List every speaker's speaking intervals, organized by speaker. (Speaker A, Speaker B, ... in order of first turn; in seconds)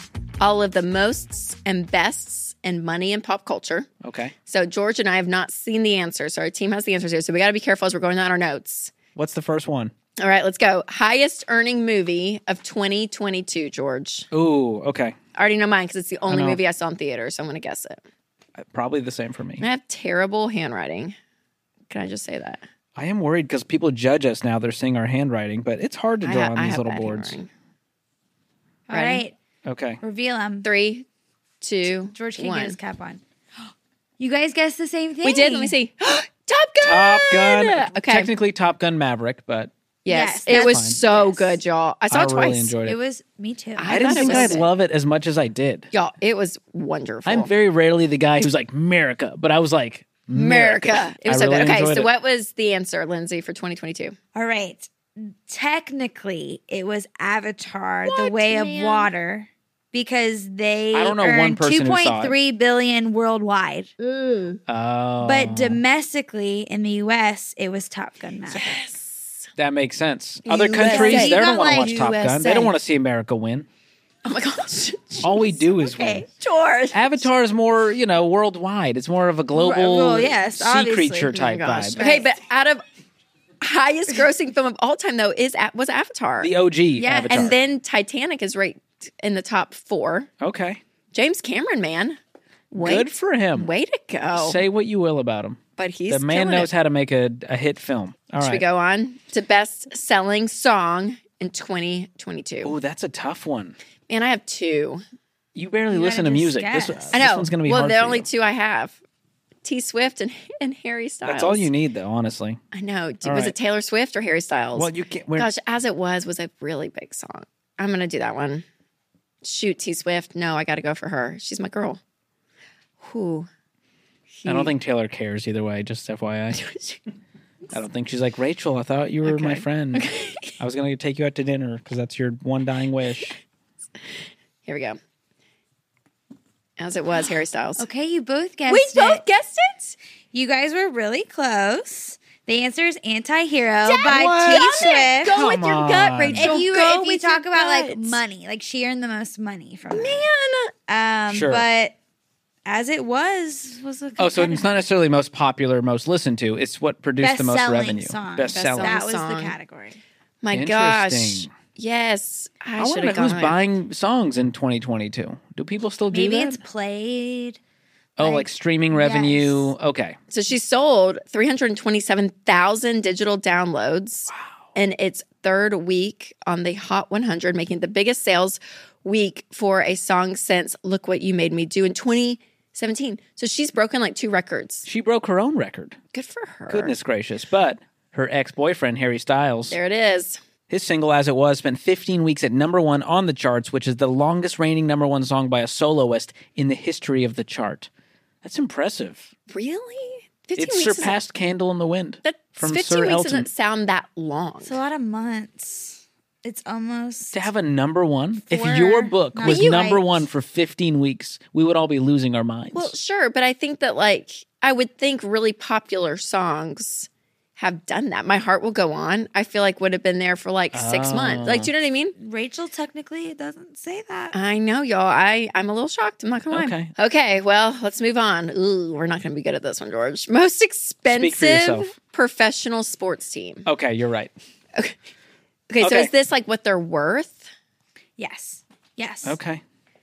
Speaker A: 0.4-3.9, 4.5-8.9, 10.2-14.3, 15.3-18.0, 19.6-21.1, 21.9-22.6, 26.2-27.5, 28.9-29.2, 30.6-31.1, 31.6-32.8, 35.2-38.3, 40.0-42.8, 43.8-44.7, 45.9-47.5, 50.3-54.2, 58.0-59.1, 68.5-69.5, 70.5-72.7, 74.2-75.6, 76.3-77.3, 81.3-82.8, 83.6-90.3, 91.1-92.2, 92.7-94.6, 95.8-96.7, 98.4-102.7, 104.1-105.0, 107.1-109.0, 109.6-111.7, 112.7-118.7, 119.4-122.0, 123.0-123.5, 124.4-124.7, 126.6-127.0, 129.2-130.6, 134.7-135.0, 136.8-137.9, 138.7-140.0, 143.8-148.2, 149.9-150.7, 158.5-159.6, 160.4-163.6, 170.3-184.9, 186.1-186.9, 189.7-190.4, 199.5-201.2, 202.2-204.8, 209.4-209.9, 212.7-222.2, 224.3-233.7, 235.7-237.5
Speaker B: 4.0-4.3, 9.2-9.9, 14.3-15.2, 16.3-16.6, 18.6-19.6, 23.0-27.4, 29.6-30.0, 36.8-39.7, 40.5-41.0, 42.1-43.0, 43.9-45.9, 47.3-52.1, 60.9-62.4, 64.7-65.8, 69.6-73.7, 75.2-76.3, 76.9-82.0, 86.4-87.5, 90.4-90.8, 92.8-93.7, 94.3-98.6, 102.6-103.8, 105.5-108.3, 111.3-112.6, 113.2-113.5, 114.8-115.5, 124.5-126.6, 127.7-133.4, 144.1-146.5, 151.3-151.7, 154.2-159.0, 160.5-161.5, 162.8-166.6, 168.2-170.2, 174.3-174.6, 184.8-186.0, 186.7-189.8, 190.7-197.9, 198.4-199.3, 200.6-203.5, 207.3-212.9, 220.7-221.7, 226.5-226.9, 231.1-231.9, 233.7-234.3, 235.8-236.1, 239.2-239.6
Speaker C: 28.9-29.4, 30.0-30.7, 32.1-33.2, 34.2-35.8, 40.1-41.6, 42.8-44.6, 54.4-63.9, 65.2-68.8, 70.8-72.0, 75.8-76.3, 79.5-81.4, 82.0-82.3, 87.0-87.5, 105.9-107.2, 137.8-139.2, 140.3-145.4, 146.3-150.3, 150.9-152.0, 152.7-154.8, 157.2-160.0, 166.1-167.6, 168.2-169.7, 204.6-207.5, 208.4-210.3, 222.2-224.3, 238.2-239.4